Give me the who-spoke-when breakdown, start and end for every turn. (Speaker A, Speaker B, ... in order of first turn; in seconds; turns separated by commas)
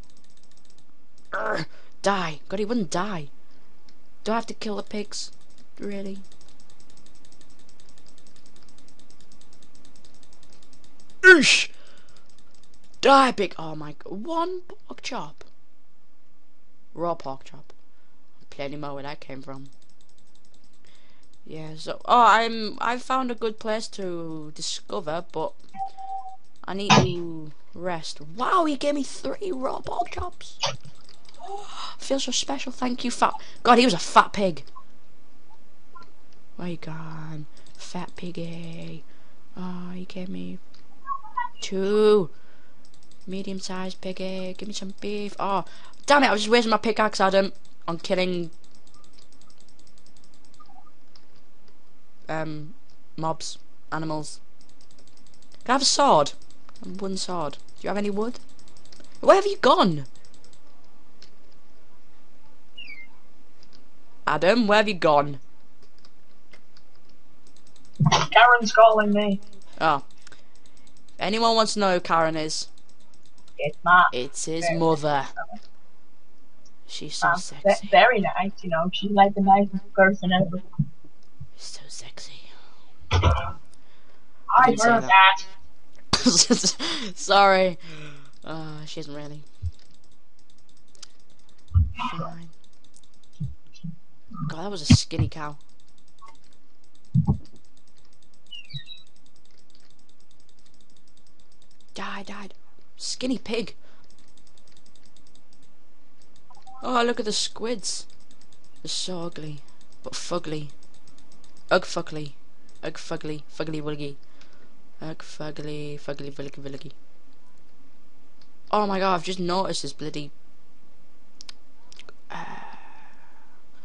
Speaker A: 1.3-3.3, Speaker A: 4.2-6.2, Speaker A: 11.2-11.7, Speaker A: 13.0-15.4, Speaker A: 16.9-17.7, Speaker A: 18.4-19.7, Speaker A: 21.4-25.6, Speaker A: 26.6-30.6, Speaker A: 31.4-34.7, Speaker A: 36.6-39.0, Speaker A: 39.5-40.6, Speaker A: 41.6-42.3, Speaker A: 43.2-48.5, Speaker A: 52.3-54.4, Speaker A: 55.6-58.4, Speaker A: 59.2-60.1, Speaker A: 64.2-65.4, Speaker B: 68.1-69.4, Speaker A: 69.8-70.0, Speaker A: 71.2-72.7, Speaker B: 73.6-74.8, Speaker A: 74.1-75.3, Speaker A: 76.9-78.0, Speaker B: 77.2-80.6, Speaker A: 81.6-82.5, Speaker B: 84.5-85.5, Speaker A: 84.6-85.1, Speaker A: 86.1-89.5, Speaker A: 92.0-92.5, Speaker A: 94.4-95.6, Speaker A: 101.9-103.8, Speaker A: 106.8-108.1, Speaker A: 108.8-110.7, Speaker A: 111.7-114.2, Speaker A: 115.0-116.9, Speaker A: 118.7-120.3, Speaker A: 122.3-123.0